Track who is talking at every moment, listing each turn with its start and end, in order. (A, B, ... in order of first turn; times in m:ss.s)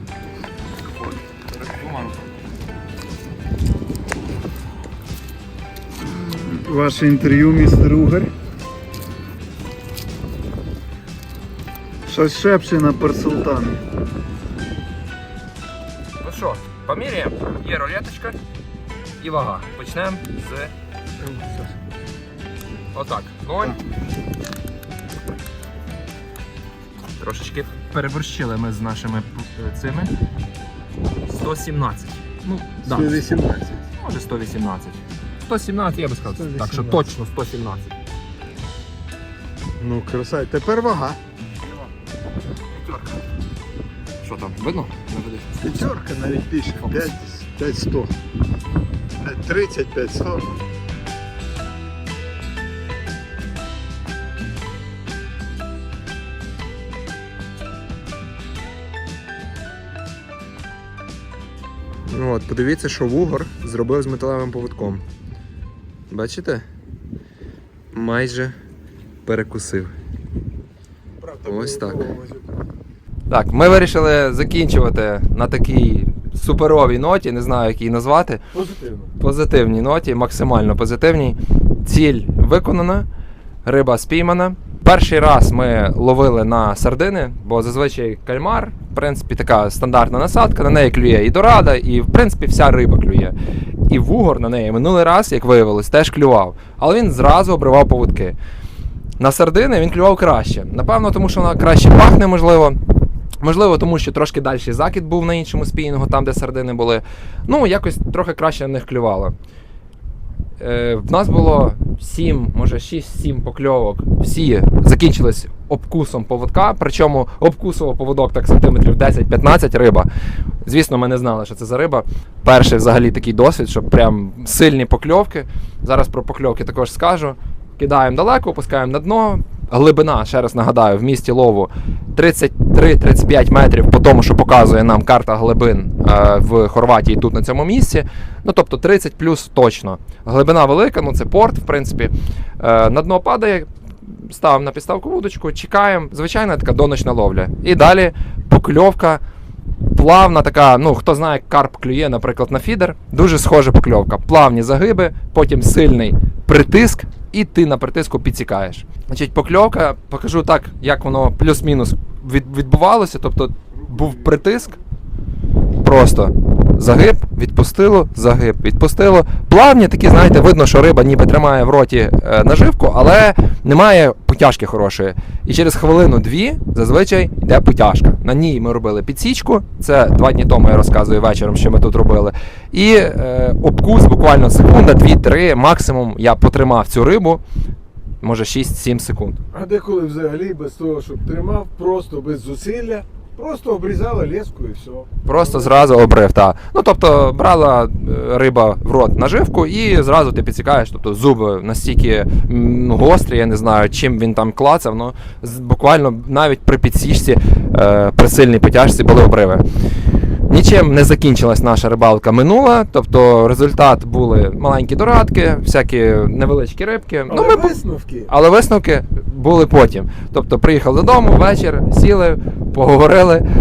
0:00.9-0:02.4 A
0:06.0-0:08.3 B
0:12.1-0:13.8 B
0:16.2-0:18.4 A
0:19.2-0:20.7 A
0:21.2-0:21.8 C
0:22.9-0:23.8 A
0:27.2-0:30.1 A
0:31.3-0:33.2 A
0:32.8-0:33.8 C
0:34.0-0:37.9 A
0:36.2-0:37.0 C
0:39.8-0:41.2 C
0:42.7-0:43.2 A
0:44.2-0:45.9 A
0:45.6-0:48.1 B
0:46.7-0:48.0 C
0:46.8-0:47.2 A
0:49.2-0:50.4 C
1:02.0-1:05.0 A
1:06.1-1:06.6 A
1:07.9-1:08.5 A
1:09.2-1:09.9 A
1:11.2-1:12.6 C
1:11.4-1:12.1 A
1:13.3-1:18.4 A
1:18.5-1:19.1 C
1:19.2-1:23.0 A
1:23.6-1:33.3 A
1:33.9-1:38.4 A
1:39.2-1:42.8 A
1:43.4-1:49.3 A
1:50.6-2:00.1 A
2:00.6-2:29.2 A
2:29.9-2:44.7 A
2:43.7-2:44.8 C
2:45.8-3:07.4 A
3:08.2-3:09.4 A
3:09.5-3:16.1 C
3:15.2-3:29.6 A
3:30.5-3:43.4 A
3:37.3-3:38.3 C